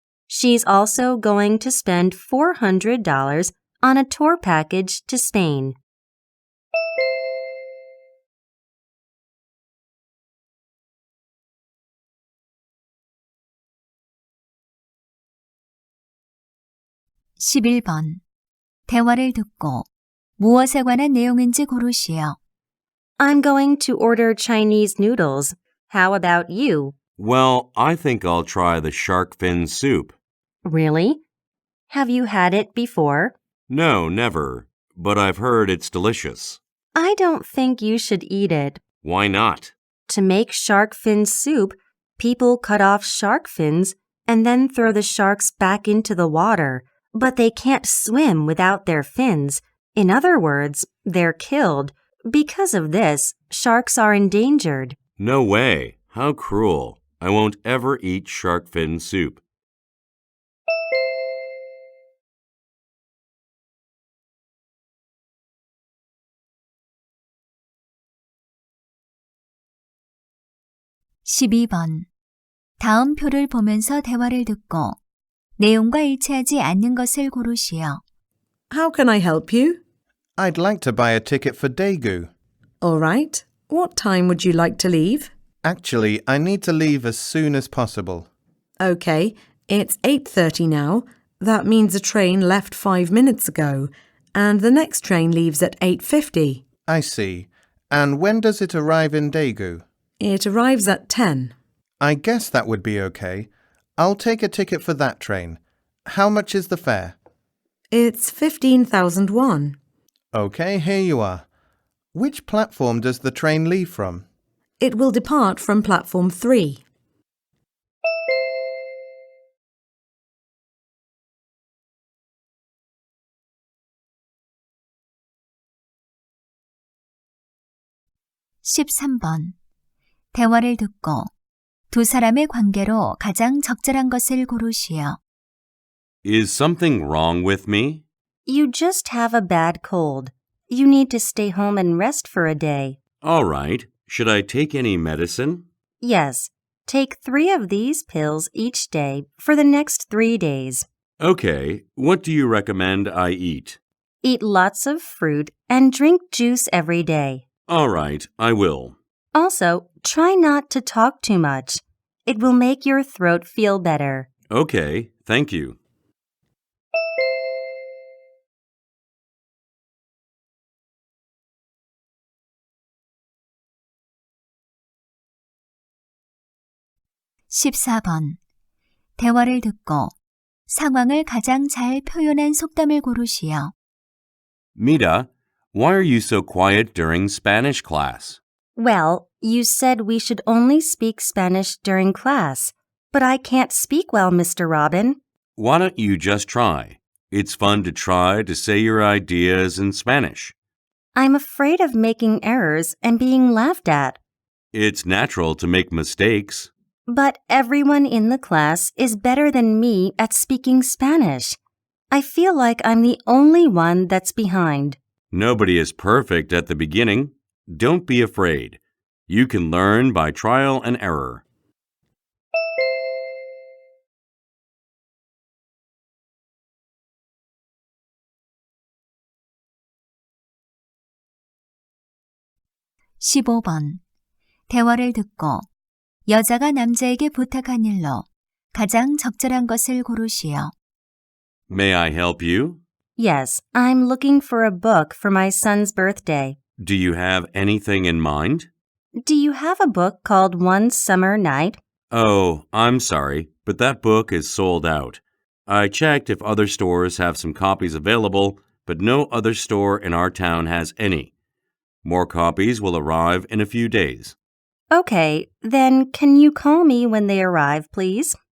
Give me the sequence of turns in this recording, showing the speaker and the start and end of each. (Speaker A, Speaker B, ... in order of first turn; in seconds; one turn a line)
Speaker A: 0.3-5.8
Speaker B: 17.4-18.2
Speaker B: 18.9-19.9
Speaker B: 20.4-22.4
Speaker A: 23.2-26.9
Speaker C: 27.2-30.1
Speaker A: 30.6-31.2
Speaker A: 31.9-33.3
Speaker C: 33.7-36.6
Speaker A: 36.9-38.8
Speaker C: 39.0-39.7
Speaker A: 40.1-55.0
Speaker C: 55.2-59.4
Speaker B: 71.2-72.1
Speaker B: 72.8-75.0
Speaker B: 75.6-78.0
Speaker D: 78.7-79.8
Speaker E: 80.4-82.3
Speaker D: 82.8-85.3
Speaker E: 85.6-88.3
Speaker D: 88.8-96.6
Speaker E: 96.8-99.8
Speaker D: 100.2-101.5
Speaker E: 102.0-107.2
Speaker D: 107.9-109.8
Speaker E: 110.3-111.5
Speaker E: 112.1-114.2
Speaker D: 114.8-116.8
Speaker B: 128.6-129.5
Speaker B: 130.3-131.3
Speaker B: 131.9-135.2
Speaker C: 136.2-138.0
Speaker A: 138.5-143.0
Speaker C: 143.2-145.7
Speaker A: 146.0-150.8
Speaker C: 151.2-153.8
Speaker A: 154.2-157.4
Speaker C: 157.7-159.0
Speaker A: 159.3-164.3
Speaker C: 164.5-165.8
Speaker B: 177.5-178.4
Speaker B: 179.2-180.1
Speaker B: 180.7-183.7
Speaker C: 184.8-188.4
Speaker A: 188.8-195.2
Speaker C: 195.6-200.5
Speaker A: 201.1-204.2
Speaker C: 204.7-206.7
Speaker A: 207.1-211.6
Speaker A: 212.1-215.0
Speaker C: 215.3-221.4
Speaker B: 233.2-234.0
Speaker B: 234.7-235.7
Speaker B: 236.3-240.7
Speaker C: 241.7-242.8
Speaker A: 243.2-246.6
Speaker C: 246.8-248.7
Speaker A: 249.2-251.8
Speaker C: 252.1-261.3
Speaker C: 262.0-264.4
Speaker A: 264.9-268.4